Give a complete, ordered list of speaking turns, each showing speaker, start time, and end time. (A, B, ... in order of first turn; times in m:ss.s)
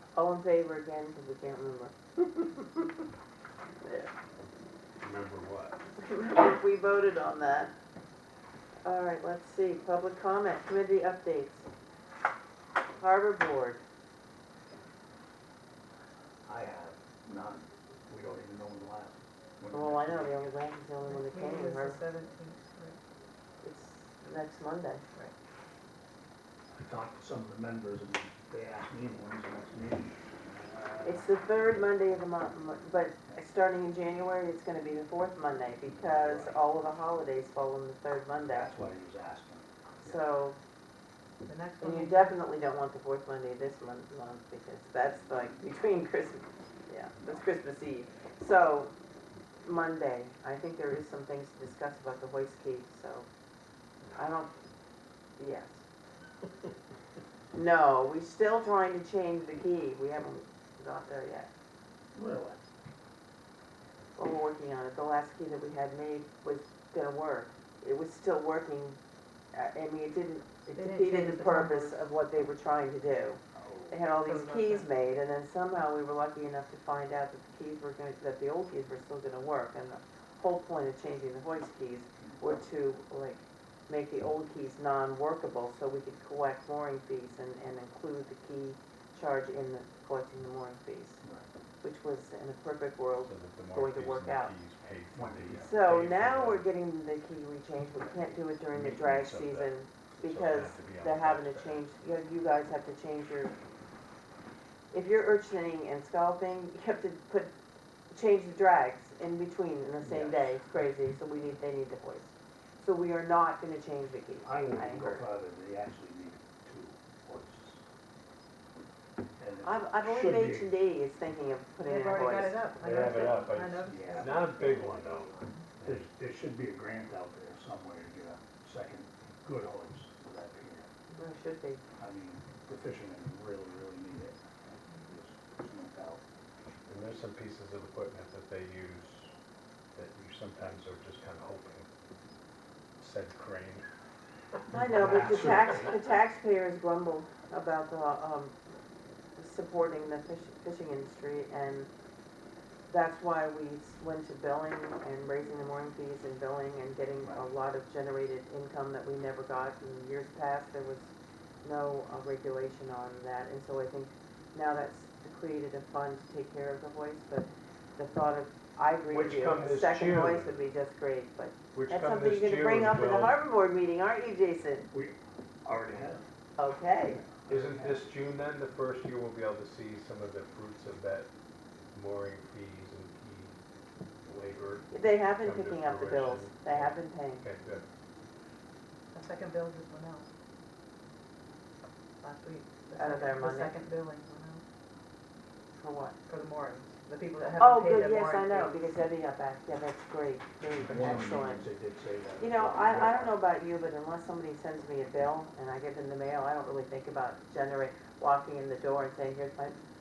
0:00.2-0:03.0 A
0:03.8-0:04.1 A
0:05.0-0:05.8 B
0:06.0-0:07.7 A
0:08.8-0:11.7 A
0:13.0-0:13.8 A
0:16.4-0:20.3 C
0:19.7-0:22.0 A
0:21.1-0:23.0 D
0:23.6-0:25.1 A
0:26.7-0:31.2 C
0:31.0-0:38.7 A
0:36.0-0:36.6 C
0:38.5-0:40.2 C
0:40.0-0:40.6 A
0:41.5-0:42.4 D
0:41.8-0:48.9 A
0:49.6-0:53.3 A
0:54.2-0:54.5 A
0:55.4-0:55.8 A
0:57.5-1:01.5 A
1:02.1-1:02.6 C
1:04.2-1:09.0 A
1:09.5-1:31.2 A
1:10.8-1:12.0 D
1:13.6-1:14.0 C
1:14.2-1:14.9 D
1:31.8-1:34.6 A
1:33.2-1:36.6 B
1:35.1-1:35.7 C
1:35.6-1:43.5 A
1:38.7-1:41.8 B
1:44.9-1:47.5 A
1:48.1-1:55.2 A
1:50.0-1:50.5 C
1:54.4-1:57.8 C
1:59.4-2:00.8 C
1:59.6-2:02.6 A
2:01.8-2:05.5 D
2:02.8-2:06.0 B
2:03.9-2:04.9 C
2:05.8-2:10.9 C
2:11.2-2:11.8 A
2:12.0-2:14.4 C
2:14.9-2:16.2 C
2:16.9-2:19.3 B
2:20.0-2:21.9 B
2:23.0-2:23.9 B
2:24.7-2:25.9 C
2:24.7-2:28.5 A
2:24.8-2:25.9 B
2:29.4-2:31.9 A
2:32.9-2:41.1 A
2:37.2-2:37.5 C
2:41.6-2:54.9 A
2:49.1-2:50.6 B
2:51.7-2:53.4 B
2:54.9-2:56.3 C
2:56.6-2:57.2 A
2:57.4-2:58.0 C
2:57.5-3:01.3 B
3:01.9-3:03.6 B
3:04.2-3:07.9 B
3:04.9-3:07.4 A
3:09.1-3:10.3 D
3:12.2-3:14.6 D
3:13.0-3:13.8 A
3:15.7-3:16.2 A
3:16.3-3:18.7 D
3:17.6-3:21.7 A
3:20.8-3:23.4 C
3:22.4-3:29.8 A